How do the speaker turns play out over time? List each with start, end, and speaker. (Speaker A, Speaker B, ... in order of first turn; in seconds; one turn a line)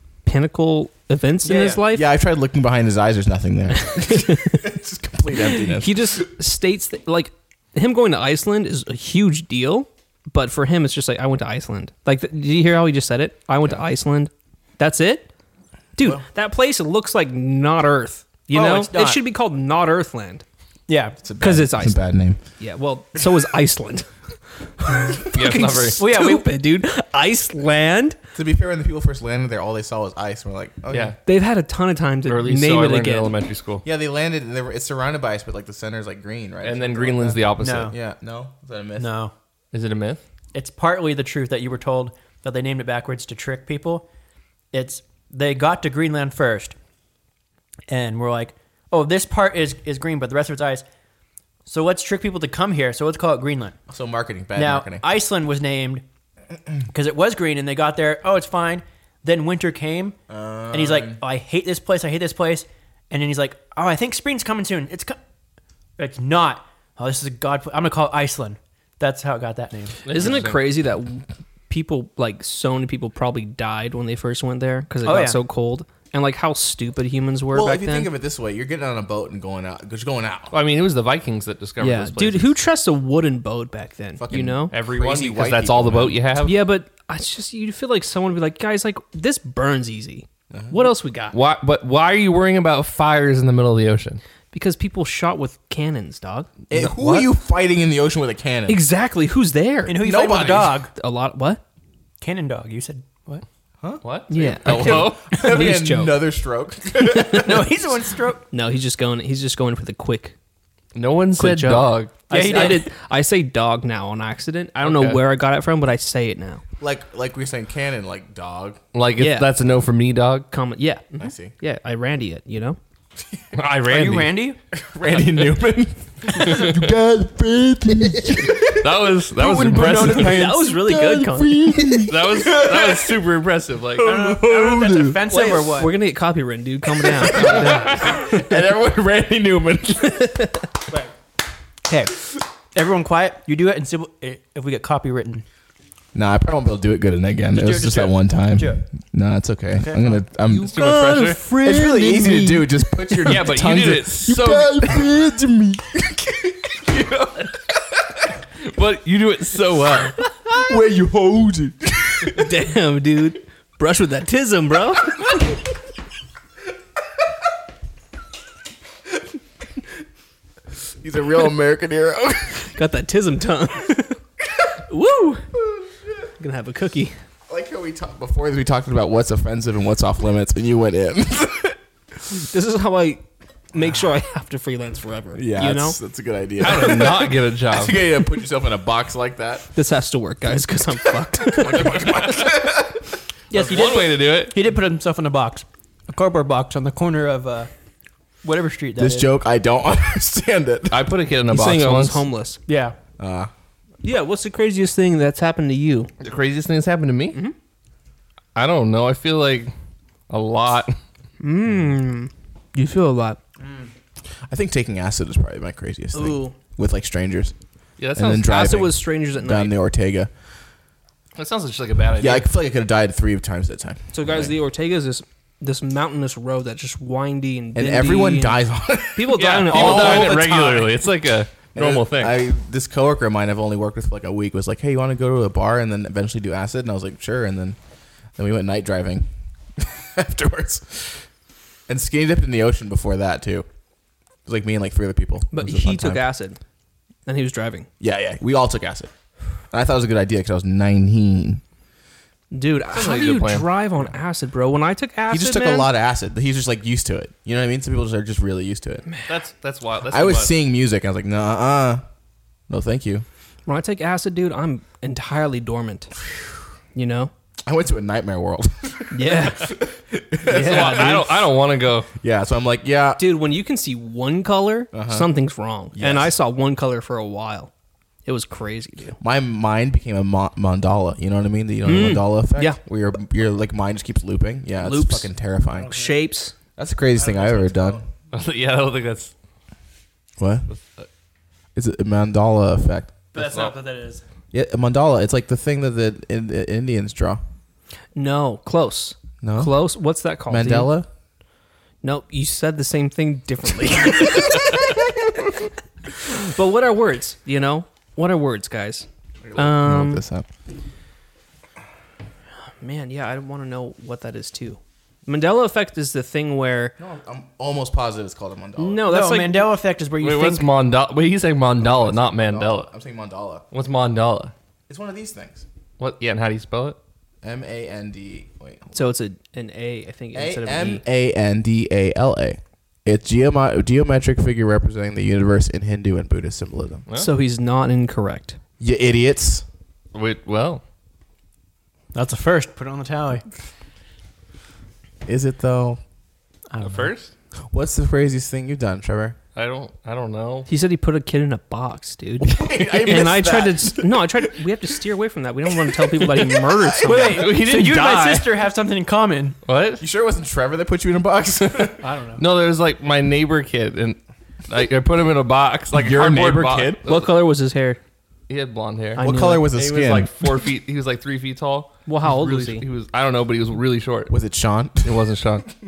Speaker A: 0.2-2.1
Speaker B: 1.4-1.8
Speaker C: 1.9-6.2
Speaker A: 3.9-4.6
Speaker A: 5.3-15.3
Speaker A: 15.9-20.4
Speaker C: 16.0-16.2
Speaker B: 18.5-19.2
Speaker B: 20.9-21.2
Speaker C: 21.2-22.4
Speaker A: 21.4-22.0
Speaker A: 22.6-24.1
Speaker A: 24.8-28.2
Speaker D: 25.3-26.0
Speaker B: 26.0-26.5
Speaker C: 28.3-31.1
Speaker D: 30.9-31.1
Speaker A: 31.2-33.3
Speaker D: 32.2-33.8
Speaker C: 33.8-39.2
Speaker D: 36.6-37.9
Speaker B: 37.6-38.0
Speaker B: 39.0-39.3
Speaker D: 39.7-40.2
Speaker B: 40.5-44.0
Speaker B: 44.7-46.8
Speaker B: 47.9-50.9
Speaker B: 51.6-53.8
Speaker C: 53.9-55.0
Speaker B: 54.5-56.0
Speaker B: 56.9-60.1
Speaker C: 60.3-61.2
Speaker B: 60.7-65.2
Speaker B: 66.0-70.0
Speaker D: 70.0-70.6
Speaker A: 70.1-78.1
Speaker B: 75.0-75.4
Speaker C: 77.5-80.5
Speaker D: 80.5-82.5
Speaker A: 81.8-84.8
Speaker C: 84.2-86.2
Speaker D: 84.7-86.5
Speaker A: 86.4-91.3
Speaker C: 90.5-90.8
Speaker D: 91.3-94.2
Speaker A: 94.5-97.3
Speaker C: 96.7-98.8
Speaker A: 98.7-100.0
Speaker B: 99.9-100.9
Speaker C: 100.0-100.8
Speaker A: 100.9-101.6
Speaker B: 102.2-103.4
Speaker C: 103.8-107.7
Speaker D: 104.0-105.2
Speaker A: 104.3-106.2
Speaker A: 107.0-107.5
Speaker B: 107.3-108.5
Speaker A: 108.5-110.3
Speaker D: 110.9-112.8
Speaker A: 111.4-116.6
Speaker B: 112.3-112.9
Speaker D: 114.8-115.2
Speaker C: 116.8-118.8
Speaker D: 118.9-120.5
Speaker A: 119.2-119.5
Speaker A: 120.5-122.8
Speaker C: 121.2-121.5
Speaker D: 123.5-124.4
Speaker B: 123.8-124.6
Speaker C: 124.7-129.1
Speaker D: 126.3-126.8
Speaker D: 128.5-130.5
Speaker B: 129.4-130.7
Speaker C: 130.0-133.2
Speaker A: 130.0-132.1
Speaker D: 132.1-134.2
Speaker B: 134.0-136.0
Speaker C: 134.0-135.2
Speaker A: 135.2-138.4
Speaker C: 137.0-140.5
Speaker D: 137.4-138.1
Speaker A: 140.2-140.5
Speaker B: 141.9-145.4
Speaker C: 146.1-150.8
Speaker B: 147.5-148.8
Speaker B: 149.8-150.2
Speaker A: 150.5-153.3
Speaker D: 150.5-151.4
Speaker C: 151.6-157.3
Speaker D: 153.2-154.9
Speaker D: 157.0-157.5
Speaker D: 158.6-160.2
Speaker C: 160.5-162.5
Speaker A: 162.3-165.3
Speaker C: 171.0-172.7
Speaker A: 172.7-174.2
Speaker A: 174.9-175.4
Speaker C: 175.6-176.1
Speaker A: 176.4-177.1
Speaker C: 177.5-181.8
Speaker A: 182.3-186.0
Speaker C: 185.3-189.7
Speaker D: 186.6-188.0
Speaker A: 189.8-192.1
Speaker C: 191.4-193.1
Speaker D: 192.0-192.5
Speaker B: 193.5-197.7
Speaker D: 193.5-194.6
Speaker B: 198.4-199.3
Speaker C: 199.0-201.1
Speaker D: 200.9-202.2
Speaker A: 201.5-202.6
Speaker B: 202.7-202.9
Speaker C: 203.2-203.5
Speaker A: 204.0-206.1
Speaker D: 206.2-207.4
Speaker D: 208.5-209.7
Speaker D: 210.3-210.9
Speaker A: 211.4-213.4
Speaker B: 213.6-213.9
Speaker C: 214.5-217.5
Speaker A: 216.1-216.5
Speaker D: 218.0-218.5
Speaker C: 218.1-220.3
Speaker A: 218.4-219.8
Speaker D: 221.4-222.4
Speaker C: 222.2-224.5
Speaker A: 224.1-228.6
Speaker C: 227.8-231.0
Speaker A: 229.1-230.4
Speaker D: 229.3-232.4
Speaker C: 231.8-237.8
Speaker C: 238.4-241.2
Speaker C: 241.9-243.7
Speaker C: 244.4-246.2
Speaker A: 245.5-246.6
Speaker A: 247.2-247.9
Speaker C: 248.0-249.1
Speaker C: 249.7-251.6
Speaker A: 252.5-255.9
Speaker D: 252.9-253.7
Speaker C: 255.3-259.1
Speaker D: 259.3-260.5
Speaker C: 260.1-262.0
Speaker C: 262.7-263.2
Speaker A: 263.6-266.1
Speaker A: 266.9-267.3
Speaker C: 267.6-271.3
Speaker A: 269.1-269.8
Speaker A: 270.4-271.3
Speaker D: 270.5-272.1
Speaker C: 272.2-273.2
Speaker A: 273.2-277.7
Speaker C: 274.9-275.3
Speaker C: 275.9-276.3
Speaker A: 278.2-279.2
Speaker C: 279.2-286.0
Speaker A: 281.8-282.8
Speaker A: 284.8-285.3
Speaker B: 285.8-286.1
Speaker A: 285.9-286.5
Speaker C: 286.8-288.0
Speaker B: 287.1-288.0
Speaker D: 288.3-289.3
Speaker C: 290.4-290.7
Speaker D: 290.7-291.1
Speaker C: 291.8-293.1
Speaker B: 293.3-294.2
Speaker D: 293.4-293.8
Speaker C: 294.5-297.4
Speaker A: 298.1-300.9
Speaker C: 299.4-299.8
Speaker C: 300.5-301.1
Speaker A: 302.0-304.8
Speaker C: 304.3-304.9
Speaker A: 306.2-310.2
Speaker C: 309.4-310.4
Speaker A: 312.8-316.9
Speaker C: 317.0-319.1
Speaker A: 318.8-319.7
Speaker B: 319.0-320.7
Speaker D: 320.2-322.9
Speaker C: 321.8-323.6
Speaker D: 323.7-324.5
Speaker C: 324.9-325.6
Speaker D: 326.0-327.0
Speaker C: 327.4-328.9
Speaker A: 328.9-331.0
Speaker C: 330.3-337.1
Speaker A: 337.1-338.6
Speaker C: 338.8-339.6
Speaker D: 340.1-340.8
Speaker B: 342.1-343.4
Speaker C: 345.2-346.0
Speaker B: 346.7-347.1
Speaker D: 346.8-347.3
Speaker C: 347.7-349.4
Speaker D: 349.5-350.7
Speaker A: 350.7-358.3
Speaker C: 352.4-354.5
Speaker B: 353.2-353.6
Speaker C: 355.9-357.4
Speaker B: 357.0-359.6
Speaker D: 357.2-358.4
Speaker D: 359.6-360.0
Speaker C: 360.0-362.0
Speaker B: 362.0-362.4
Speaker D: 362.4-367.3
Speaker C: 365.9-367.0
Speaker A: 367.0-368.0
Speaker D: 368.5-374.3
Speaker A: 369.2-369.7
Speaker C: 369.2-370.5
Speaker A: 372.1-372.8
Speaker C: 374.3-375.2
Speaker D: 375.0-375.7